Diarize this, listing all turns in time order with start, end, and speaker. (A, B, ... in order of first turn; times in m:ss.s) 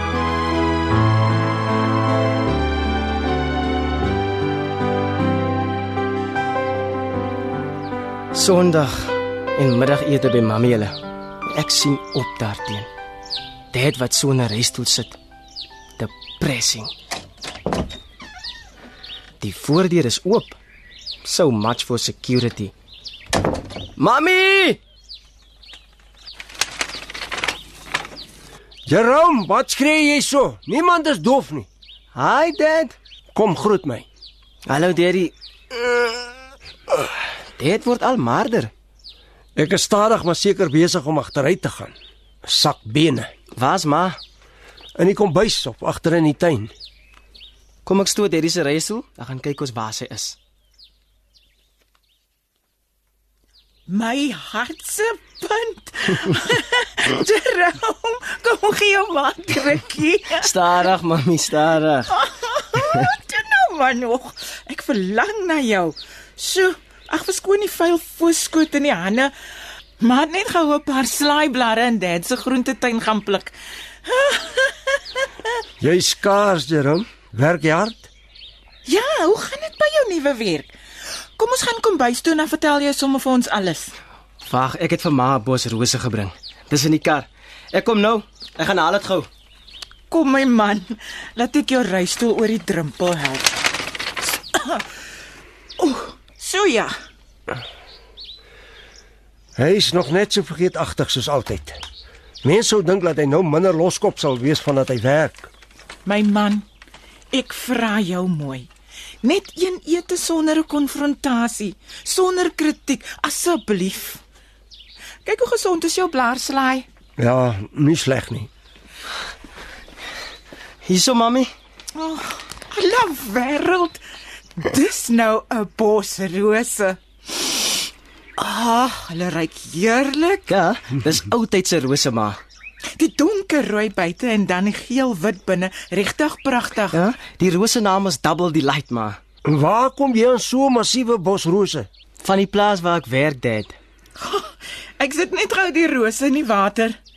0:08.3-0:12.9 A
0:13.7-0:15.2 A
0:16.0-0:16.9 A
0:19.4-0:20.6 A
0:21.2-0:22.7 A
0:24.0-0:24.8 A
0:28.8-0:31.7 B
0:32.1-0:32.9 A
0:33.3-0:34.1 B
0:34.6-0:36.0 A
0:37.6-0:38.7 A
0:39.6-0:43.3 B
0:43.5-0:44.2 A
0:45.0-0:46.7 B
0:47.8-0:50.4 A
0:53.9-1:00.5 C
1:00.4-1:02.1 A
1:02.1-1:09.3 C
1:10.0-1:13.5 C
1:14.0-1:15.3 C
1:15.8-1:18.1 B
1:18.8-1:20.7 C
1:21.4-1:23.9 C
1:24.4-1:29.3 A
1:30.1-1:33.6 C
1:34.2-1:34.8 C
1:35.8-1:36.9 C
1:39.6-1:41.8 B
1:42.4-1:45.5 B
1:46.0-1:46.6 C
1:47.3-1:48.7 C
1:49.2-1:54.2 C
1:55.2-1:56.8 C
1:57.2-1:58.5 B
2:00.8-2:01.5 A
2:01.9-2:04.0 C
2:04.6-2:07.8 C
2:08.4-2:10.5 C
2:10.5-2:12.4 A
2:13.0-2:17.0 C
2:16.9-2:19.2 A
2:19.4-2:21.9 B
2:22.2-2:23.7 A
2:24.2-2:27.0 C